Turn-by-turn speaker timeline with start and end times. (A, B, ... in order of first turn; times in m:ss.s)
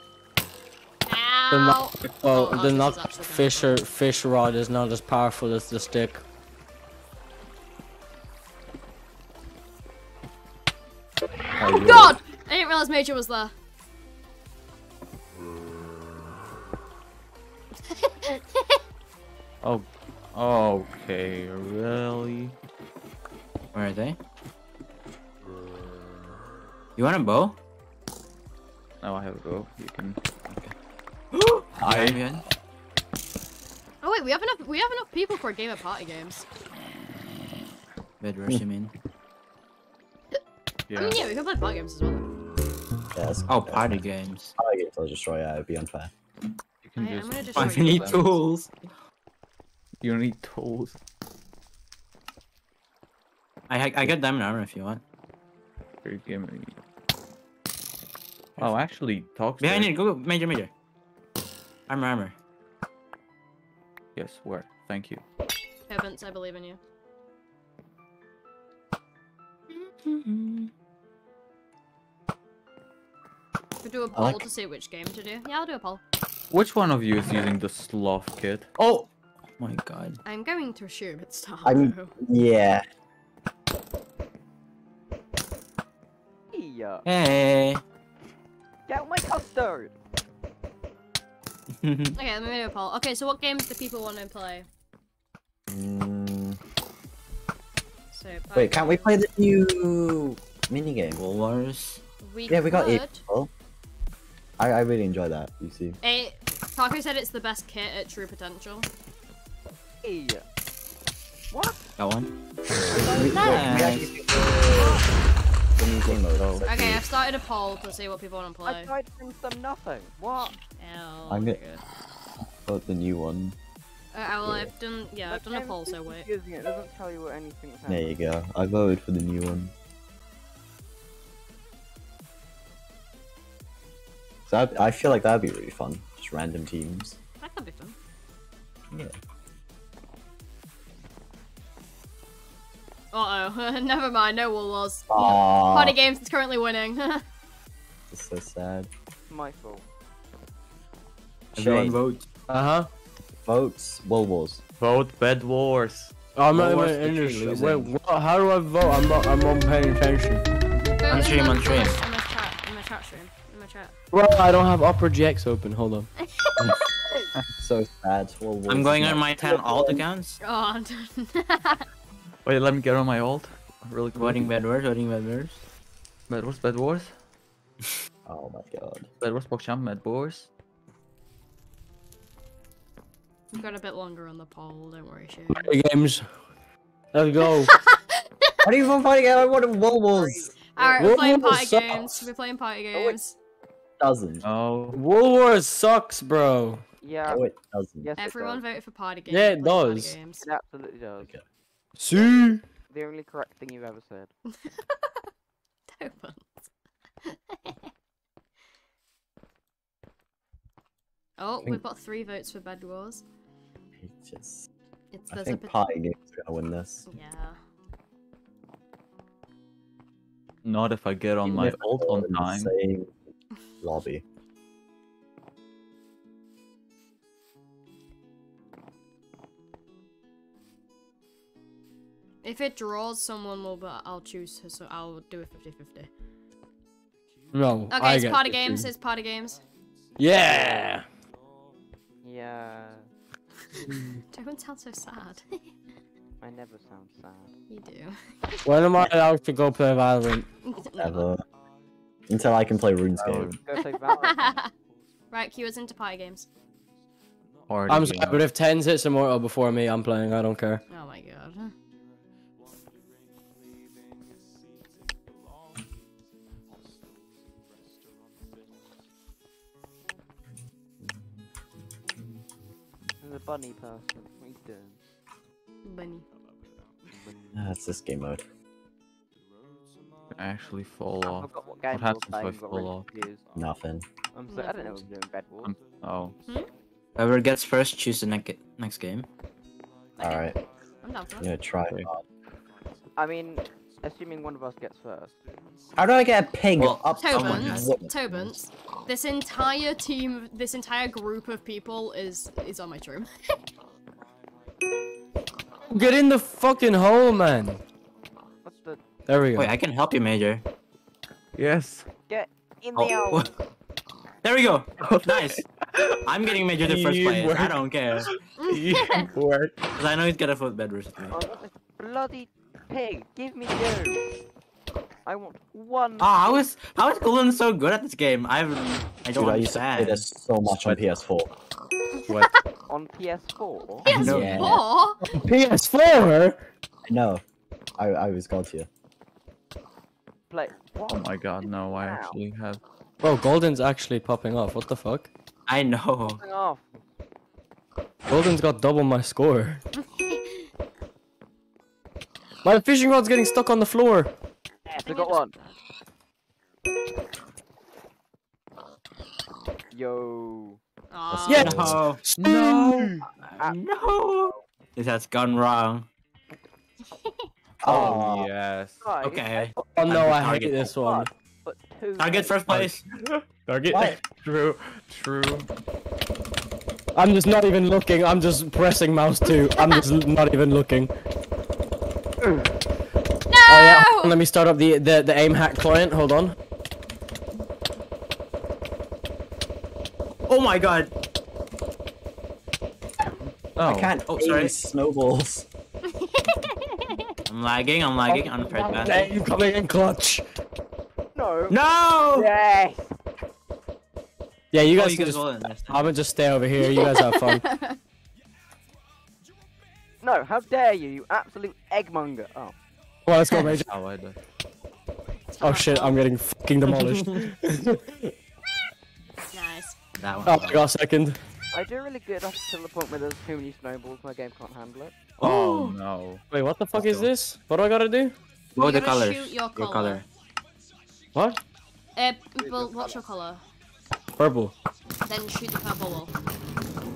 0:01.1-0:03.8 A
0:01.5-0:06.2 B
0:11.6-0:13.5 A
0:11.7-0:12.1 C
0:17.9-0:18.8 A
0:19.6-0:22.6 C
0:23.7-0:24.2 D
0:27.0-0:27.6 D
0:29.0-0:30.7 C
0:31.3-0:32.4 D
0:31.8-0:32.2 C
0:34.0-0:36.4 A
0:38.2-0:38.9 D
0:40.9-0:41.2 C
0:40.9-0:42.3 A
0:43.1-0:44.0 E
0:43.5-0:44.5 D
0:44.6-0:46.1 E
0:46.8-0:48.3 C
0:47.0-0:48.4 A
0:47.6-0:48.9 D
0:50.0-0:51.0 C
0:53.7-0:55.0 D
0:56.0-0:56.8 C
0:58.6-0:59.9 C
0:59.6-1:00.7 D
1:01.9-1:02.3 D
1:04.2-1:05.2 C
1:05.9-1:06.8 A
1:09.8-1:10.7 D
1:13.8-1:16.0 A
1:14.2-1:14.4 E
1:16.5-1:18.7 C
1:18.8-1:19.1 D
1:19.6-1:20.2 D
1:20.2-1:22.2 A
1:21.6-1:22.8 E
1:26.5-1:27.0 F
1:27.0-1:27.8 D
1:28.9-1:30.0 F
1:31.8-1:32.2 D
1:32.2-1:34.7 A
1:35.7-1:36.6 E
1:38.1-1:39.2 A
1:38.5-1:41.3 E
1:41.2-1:42.0 D
1:42.2-1:43.2 A
1:42.5-1:43.5 E
1:44.6-1:46.0 E
1:46.0-1:48.9 A
1:50.0-1:50.4 F
1:51.5-1:51.8 F
1:52.0-1:52.3 D
1:52.9-1:55.0 E
1:53.0-1:53.8 A
1:53.0-1:54.1 D
1:55.8-1:57.0 E
1:56.0-1:56.6 C
1:56.6-1:58.9 A
1:58.6-2:00.6 F
2:00.8-2:01.6 A
2:01.3-2:01.6 E
2:01.4-2:01.8 F
2:02.7-2:03.6 E
2:04.1-2:06.3 A
2:04.4-2:04.7 E
2:05.3-2:08.2 F
2:07.9-2:09.7 E
2:14.5-2:17.2 E
2:17.4-2:18.0 A
2:23.1-2:27.2 A
2:25.1-2:26.0 E
2:28.1-2:28.9 E
2:29.3-2:29.8 F
2:31.6-2:32.2 D
2:31.6-2:32.0 E
2:32.5-2:32.9 B
2:33.5-2:34.6 E
2:34.8-2:36.1 C
2:36.4-2:40.5 B
2:36.5-2:37.9 D
2:40.9-2:43.9 A
2:41.1-2:42.0 D
2:44.1-2:46.1 B
2:46.2-2:47.3 A
2:47.6-2:50.0 E
2:48.7-2:50.4 D
2:50.4-2:51.9 A
2:52.4-2:54.6 C
2:54.2-2:55.6 D
2:56.3-2:57.2 C
2:58.3-2:59.1 E
2:59.2-3:00.5 C
3:03.5-3:05.7 A
3:05.5-3:06.3 B
3:07.1-3:07.7 B
3:07.4-3:08.7 A
3:08.6-3:10.5 E
3:10.1-3:11.2 F
3:10.7-3:13.4 A
3:11.0-3:12.3 B
3:14.0-3:14.4 E
3:14.4-3:15.0 C
3:14.9-3:16.8 B
3:17.0-3:17.4 F
3:17.3-3:18.2 E
3:18.0-3:18.6 F
3:18.2-3:20.4 A
3:19.3-3:20.2 B
3:20.3-3:21.3 F
3:22.0-3:22.6 B
3:22.9-3:24.3 F
3:24.5-3:25.3 A
3:25.9-3:26.7 A
3:27.2-3:27.9 A
3:31.4-3:33.2 A
3:34.0-3:34.7 E
3:35.1-3:35.8 A
3:35.3-3:37.1 E
3:37.1-3:37.6 A
3:40.6-3:42.7 C
3:41.4-3:43.1 E
3:43.8-3:44.2 E
3:52.4-3:56.1 A
3:57.5-3:58.9 B
3:57.9-3:59.6 A
4:00.2-4:01.0 B
4:02.2-4:03.1 F
4:03.7-4:05.4 A
4:03.9-4:04.2 B
4:06.4-4:07.5 F
4:07.7-4:08.6 A
4:08.6-4:10.5 B
4:10.6-4:11.3 A
4:11.0-4:11.4 E
4:12.3-4:13.6 E
4:13.2-4:13.6 C
4:13.5-4:14.7 F
4:13.7-4:14.7 A
4:15.3-4:16.5 A
4:17.7-4:18.4 C
4:17.9-4:20.8 B
4:20.9-4:21.7 A
4:33.2-4:35.0 F
4:35.8-4:36.3 A
4:37.5-4:38.4 E
4:40.3-4:43.1 C
4:41.2-4:43.4 F
4:43.6-4:44.0 E
4:44.3-4:46.0 F
4:44.5-4:45.0 A
4:45.6-4:46.4 C
4:47.2-4:49.3 D
4:50.2-4:51.5 A
4:50.2-4:50.6 E
4:51.4-4:52.2 E
4:53.2-4:55.4 F
4:56.0-4:58.5 E
4:56.8-4:58.2 D
4:57.2-5:03.3 A
5:05.9-5:07.8 B
5:08.6-5:09.0 F
5:09.3-5:09.7 B
5:09.6-5:10.6 D
5:11.6-5:12.1 C
5:12.3-5:13.6 F
5:13.0-5:13.5 D
5:14.4-5:15.7 D
5:15.0-5:16.2 C
5:16.2-5:18.3 D
5:16.8-5:19.8 C
5:18.6-5:19.3 A
5:20.0-5:21.4 D
5:21.3-5:24.2 F
5:25.2-5:26.6 F
5:26.2-5:30.2 D
5:29.4-5:31.5 E
5:30.7-5:31.0 C
5:32.3-5:32.6 A
5:32.9-5:34.3 F
5:34.0-5:35.4 A
5:34.1-5:34.8 D
5:34.2-5:34.8 E
5:35.3-5:36.6 B
5:37.1-5:37.4 E
5:38.0-5:38.9 E
5:40.5-5:42.4 F
5:41.1-5:42.8 C
5:43.2-5:45.3 B
5:45.7-5:46.4 D
5:46.4-5:47.0 F
5:48.3-5:49.8 B
5:50.0-5:50.6 A
5:52.6-5:54.3 B
5:54.9-5:55.5 F
5:55.0-5:55.8 A
5:59.9-6:00.8 F
6:01.1-6:01.7 A
6:01.3-6:02.0 E
6:01.5-6:03.2 B
6:01.5-6:02.2 D
6:02.4-6:03.2 C
6:03.4-6:06.1 D
6:03.6-6:04.6 F
6:07.8-6:08.5 E
6:07.8-6:09.0 C
6:07.9-6:08.2 B
6:09.0-6:09.8 F
6:09.2-6:10.9 D
6:09.8-6:11.3 B
6:10.9-6:12.8 F
6:12.2-6:13.0 D
6:12.7-6:15.7 C
6:13.9-6:14.2 E
6:17.2-6:21.1 B
6:19.6-6:20.0 A
6:23.5-6:24.4 A
6:23.7-6:26.6 B
6:30.5-6:31.1 D
6:33.8-6:34.1 C
6:33.8-6:35.7 E
6:34.2-6:34.8 D
6:36.1-6:37.3 A
6:37.5-6:39.3 D
6:38.3-6:40.4 B
6:41.4-6:41.8 F
6:41.7-6:42.5 D
6:42.4-6:43.0 F
6:44.7-6:47.6 B
6:44.9-6:46.1 D
6:46.8-6:48.0 A
6:50.2-6:52.8 F
6:53.3-6:53.9 B
6:53.6-6:54.4 C
6:55.5-6:56.2 A
6:55.6-6:58.3 B
6:56.9-6:57.3 D
6:59.5-7:00.0 A
7:00.2-7:00.9 D
7:00.5-7:01.4 B
7:01.7-7:05.2 F
7:05.4-7:06.4 C
7:05.4-7:06.0 B
7:06.5-7:08.4 B
7:06.9-7:07.3 D
7:08.8-7:10.3 D
7:08.8-7:10.2 A
7:11.4-7:11.6 B
7:12.2-7:13.6 A
7:12.6-7:13.2 F
7:14.4-7:14.7 B
7:15.2-7:16.3 A